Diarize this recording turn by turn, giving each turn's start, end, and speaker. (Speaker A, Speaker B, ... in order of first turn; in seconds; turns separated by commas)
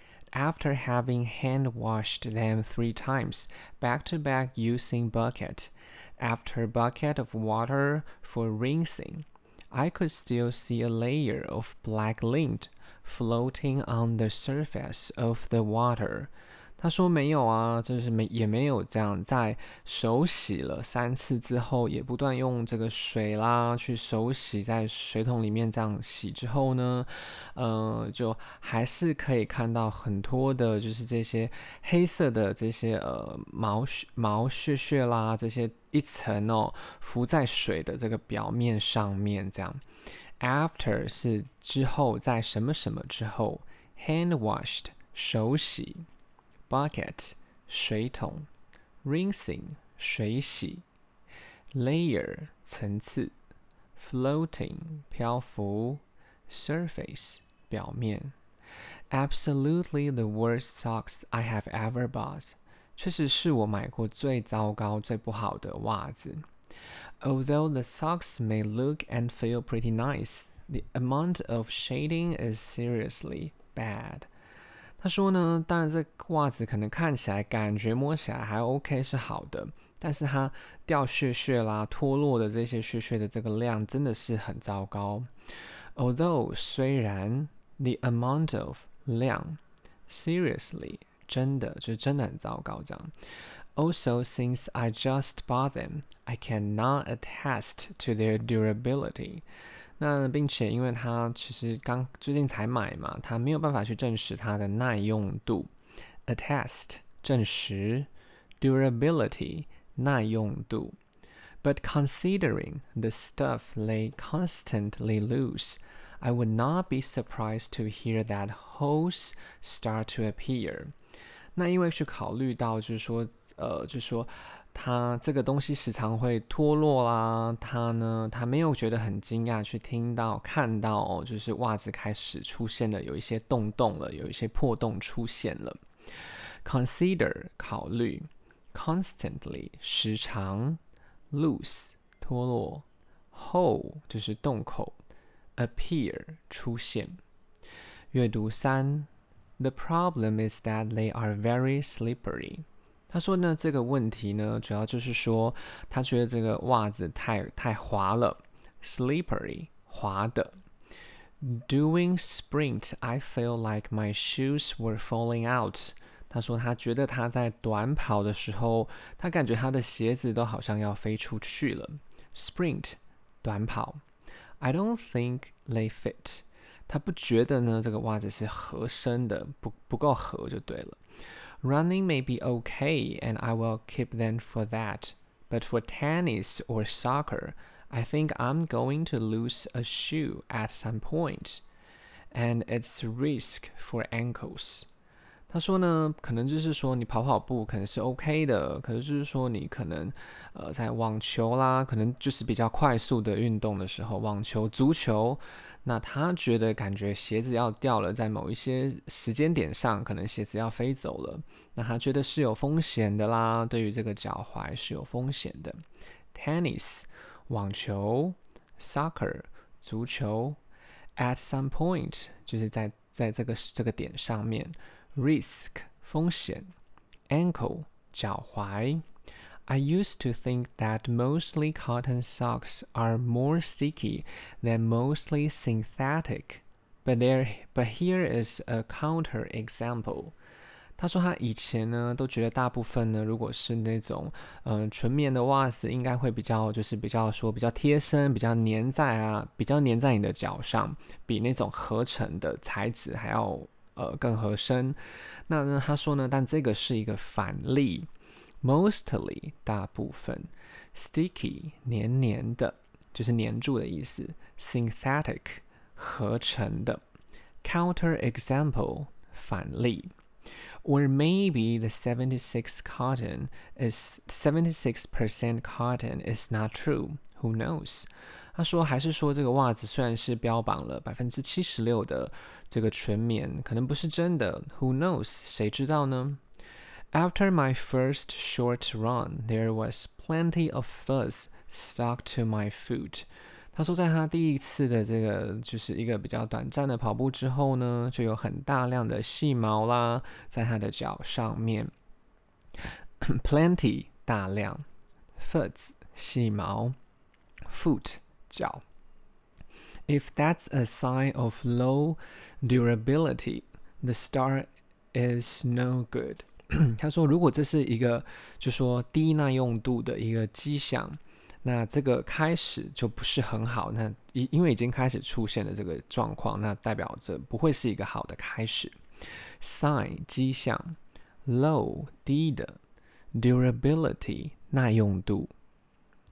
Speaker A: 0.3-39.8, Speaker A: 40.4-46.0, Speaker A: 46.7-48.5, Speaker A: 49.0-50.8, Speaker A: 51.7-53.3, Speaker A: 54.0-58.3, Speaker A: 59.1-66.5, Speaker A: 67.2-74.3, Speaker A: 75.0-85.3, Speaker A: 86.0-93.1, Speaker A: 93.8-99.4, Speaker A: 100.0-105.7, Speaker A: 106.3-108.1, Speaker A: 108.6-111.0, Speaker A: 111.6-120.9, Speaker A: 121.5-135.8, Speaker A: 136.6-140.8, Speaker A: 141.3-145.0, Speaker A: 145.6-147.2, Speaker A: 148.1-160.5, Speaker A: 161.4-174.0, Speaker A: 174.6-181.0, Speaker A: 181.6-191.6, Speaker A: 192.3-194.9, Speaker A: 195.5-215.8, Speaker A: 216.3-220.6, Speaker A: 221.2-226.7, Speaker A: 227.3-229.0, Speaker A: 229.7-240.3, Speaker A: 241.0-258.1, Speaker A: 258.6-267.0, Speaker A: 267.6-270.1, Speaker A: 270.8-286.4, Speaker A: 287.1-301.9, Speaker A: 303.2-304.8, Speaker A: 305.4-306.9, Speaker A: 307.7-308.8, Speaker A: 310.1-329.0, Speaker A: 329.6-332.8, Speaker A: 333.3-335.5